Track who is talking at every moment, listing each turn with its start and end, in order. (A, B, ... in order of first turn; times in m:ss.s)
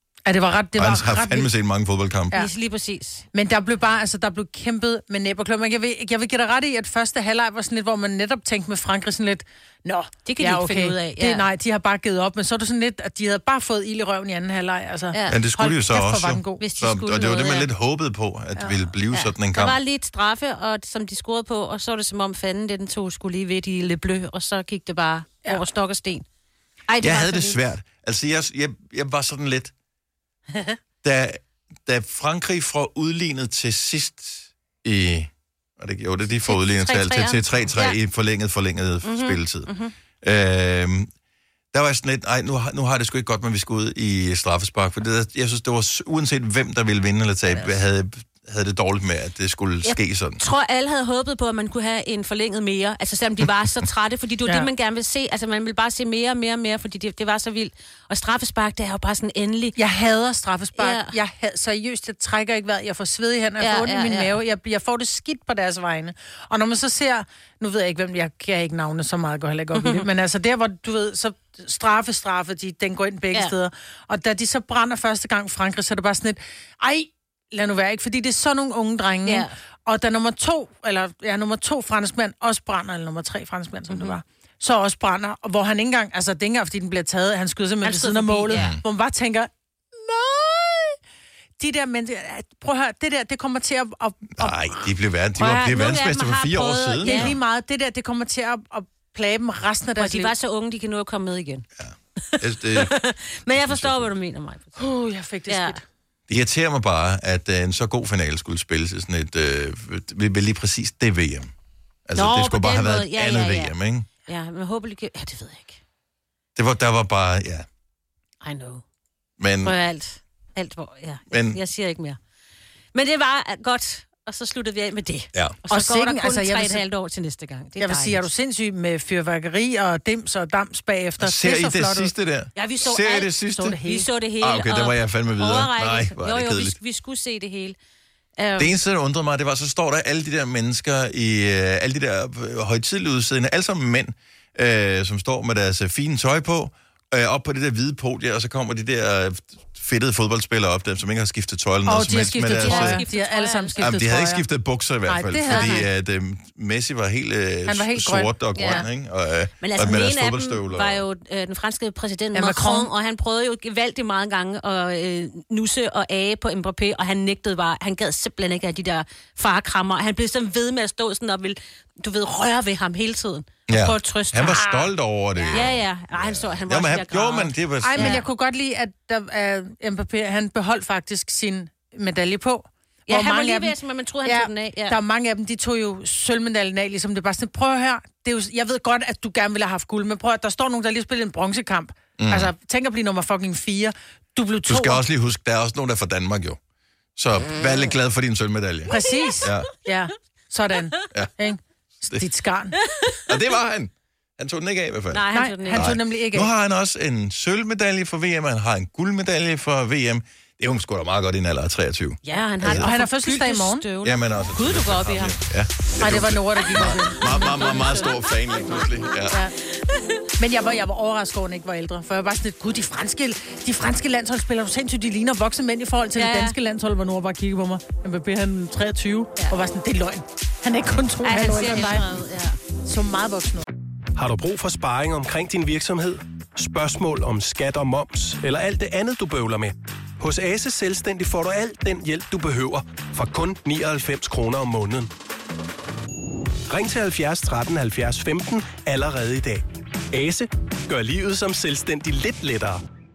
0:00.2-0:01.5 A
0:00.8-0:02.4 B
0:02.3-0:03.2 C
0:03.3-0:16.6 A
0:10.2-0:11.4 C
0:15.1-0:15.4 C
0:15.3-0:19.8 B
0:16.6-0:17.7 C
0:19.1-0:26.2 C
0:26.9-0:27.6 C
0:27.0-0:29.7 B
0:31.0-0:39.7 B
0:36.4-0:38.0 C
0:39.0-0:39.9 C
0:40.2-0:41.1 B
0:41.7-0:50.4 B
0:49.8-0:59.8 C
0:59.8-1:31.0 A
1:00.8-1:01.1 C
1:03.6-1:04.4 C
1:09.7-1:10.1 C
1:19.2-1:19.5 C
1:23.9-1:24.2 C
1:27.8-1:28.7 C
1:28.5-1:28.8 B
1:31.6-1:34.7 A
1:34.4-1:37.3 B
1:35.4-1:37.4 C
1:37.0-1:40.3 A
1:40.0-1:41.6 C
1:41.8-1:42.9 B
1:42.2-1:44.8 C
1:43.5-1:44.1 B
1:44.8-1:45.8 A
1:45.5-1:45.8 C
1:46.3-1:51.5 B
1:52.1-1:54.1 B
1:52.2-1:53.7 C
1:54.3-1:55.8 C
1:56.6-1:57.7 B
1:58.4-1:58.8 C
1:59.4-1:59.8 B
1:59.6-2:02.2 C
2:01.3-2:01.6 B
2:02.9-2:08.3 C
2:05.7-2:06.8 A
2:07.8-2:12.1 A
2:11.2-2:13.8 B
2:12.6-2:17.8 C
2:13.6-2:14.1 A
2:14.4-2:16.8 B
2:18.4-2:18.7 C
2:18.6-2:33.0 B
2:31.8-2:34.4 A
2:32.6-2:33.8 C
2:33.8-2:41.0 B
2:35.0-2:35.9 A
2:35.5-2:35.9 C
2:37.7-2:38.8 A
2:38.5-2:38.9 C
2:39.6-2:54.9 C
2:42.3-2:42.9 A
2:53.7-2:58.2 B
2:55.4-2:58.3 C
2:57.8-3:15.0 A
3:03.1-3:05.0 C
3:12.2-3:12.5 B
3:14.7-3:16.6 B
3:17.2-3:19.7 B
3:18.9-3:22.8 A
3:19.0-3:19.3 C
3:22.9-3:23.2 C
3:23.3-3:32.9 B
3:25.1-3:26.0 C
3:25.3-3:26.5 A
3:32.2-3:35.4 C
3:32.6-3:33.8 A
3:34.0-3:39.4 B
3:36.0-3:37.8 A
3:36.7-3:40.2 C
3:40.4-3:52.0 A
3:46.2-3:46.6 C
3:51.2-3:52.6 C
3:52.8-3:53.6 A
3:54.2-4:05.1 D
4:06.7-4:12.8 D